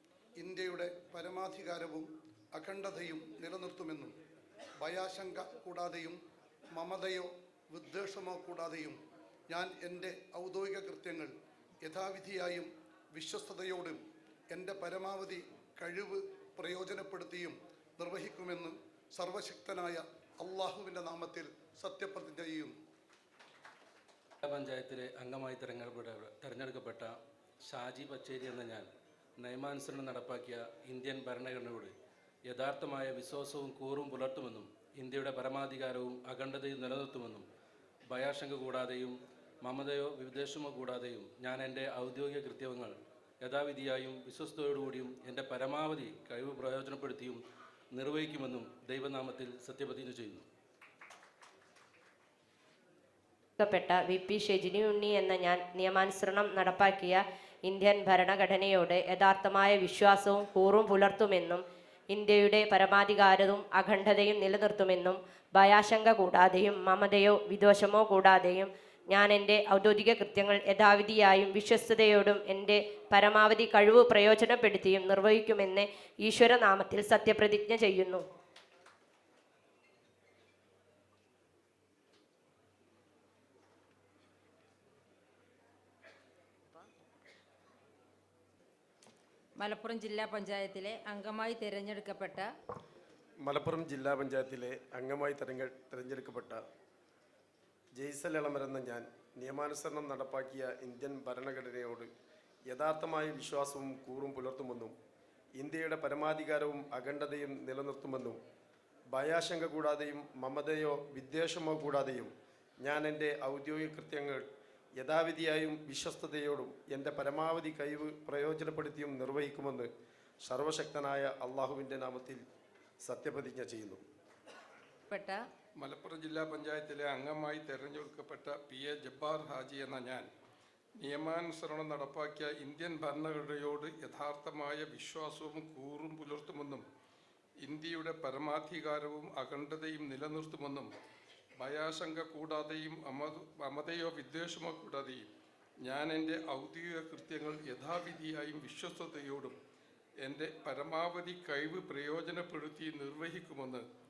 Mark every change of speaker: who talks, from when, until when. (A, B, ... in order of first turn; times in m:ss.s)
0:00.4-0:04.1 A
0:04.8-0:06.2 A
0:06.7-0:09.0 A
0:09.5-0:11.3 A
0:11.8-0:14.0 A
0:14.5-0:22.7 A
0:24.4-0:27.2 B
0:27.7-0:28.9 B
0:29.4-0:31.9 B
0:32.5-0:37.4 B
0:38.1-0:47.4 B
0:47.9-0:50.4 B
0:53.6-1:18.2 C
1:29.6-1:32.5 D
1:33.4-1:36.6 E
1:38.0-1:42.1 E
1:42.7-1:44.9 E
1:45.6-1:48.4 E
1:49.1-1:52.3 E
1:52.8-1:54.4 E
1:55.0-1:59.9 E
2:00.5-2:02.4 E
2:03.1-2:04.0 E
2:05.1-2:05.4 D
2:05.8-2:10.2 F
2:11.0-2:16.8 F
2:17.6-2:20.9 F
2:21.6-2:25.2 F
2:25.8-2:29.5 F
2:30.2-2:33.8 F